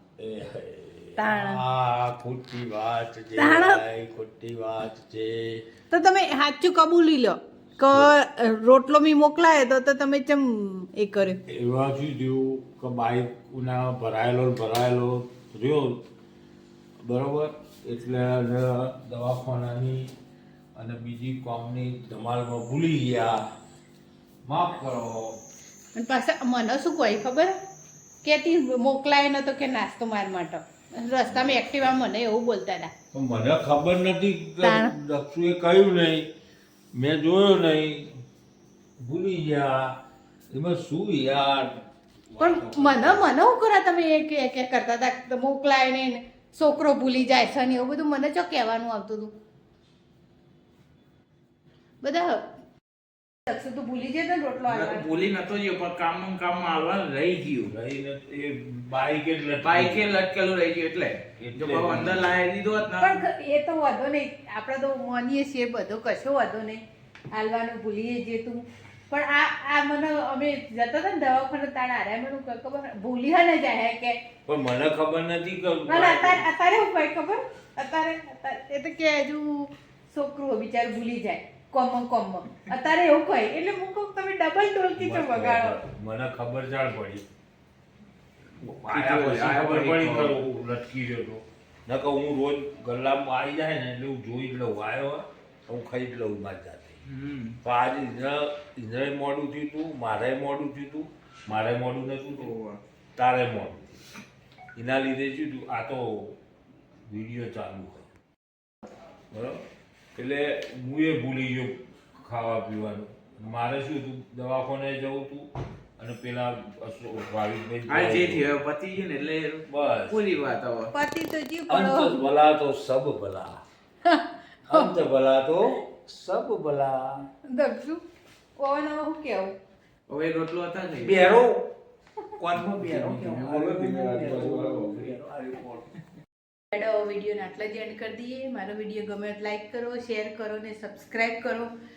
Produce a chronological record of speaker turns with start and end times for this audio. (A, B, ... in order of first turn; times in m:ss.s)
0:00.2-0:05.7 A
0:01.2-0:01.6 B
0:03.4-0:03.8 B
0:05.9-0:11.4 B
0:11.5-0:16.0 A
0:17.0-0:20.1 A
0:20.8-0:23.4 A
0:24.5-0:25.4 A
0:26.0-0:27.6 B
0:28.2-0:32.9 B
0:33.1-0:36.3 A
0:34.6-0:34.9 B
0:36.9-0:38.2 A
0:39.0-0:40.0 A
0:40.5-0:43.2 A
0:42.4-0:49.4 B
0:52.0-0:52.5 B
0:53.4-0:55.1 B
0:54.7-0:57.7 C
0:57.7-1:00.0 A
0:59.6-1:03.2 C
1:01.4-1:02.4 A
1:03.0-1:14.2 B
1:14.5-1:16.5 A
1:15.9-1:25.8 B
1:25.0-1:27.2 A
1:28.6-1:37.0 A
1:28.9-1:30.4 C
1:37.1-1:37.6 C
1:37.6-1:42.5 A
1:42.4-1:42.8 C
1:43.2-1:44.0 A
1:44.8-1:46.4 A
1:47.1-1:48.1 A
1:49.3-1:58.5 A
1:57.9-2:00.9 C
1:59.7-2:00.2 A
2:00.9-2:02.3 B
2:01.7-2:03.6 A
2:04.0-2:04.9 B
2:04.7-2:07.2 A
2:07.5-2:08.0 B
2:08.6-2:09.6 B
2:10.1-2:11.4 C
2:11.0-2:11.7 A
2:12.4-2:15.9 A
2:12.9-2:15.1 C
2:16.7-2:21.7 B